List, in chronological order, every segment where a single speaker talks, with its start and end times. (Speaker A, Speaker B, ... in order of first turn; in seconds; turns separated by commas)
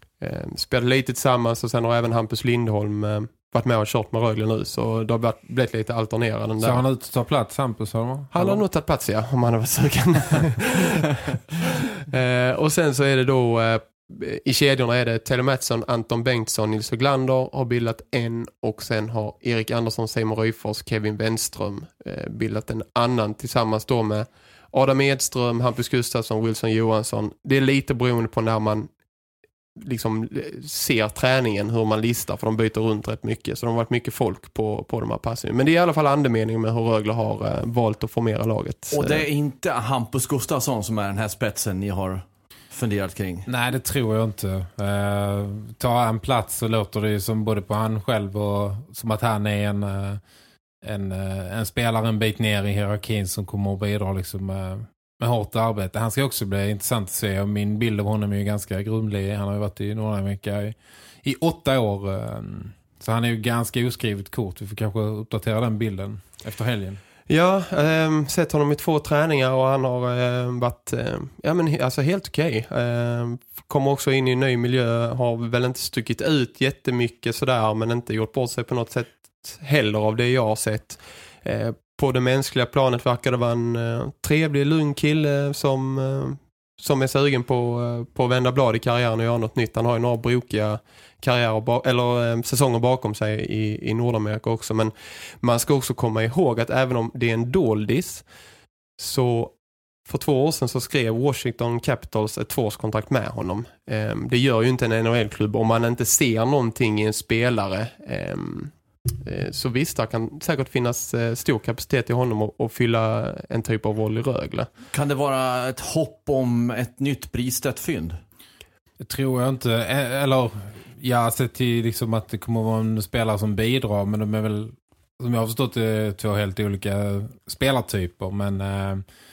Speaker A: 0.2-6.8, Speaker B: 6.6-8.6, Speaker A: 8.3-11.0, Speaker A: 12.0-28.9, Speaker A: 29.8-39.2, Speaker C: 38.9-43.5, Speaker B: 43.5-50.2, Speaker B: 50.8-67.0, Speaker A: 67.3-98.2, Speaker A: 99.0-99.5, Speaker A: 100.1-114.7, Speaker C: 114.9-118.2, Speaker B: 119.0-129.0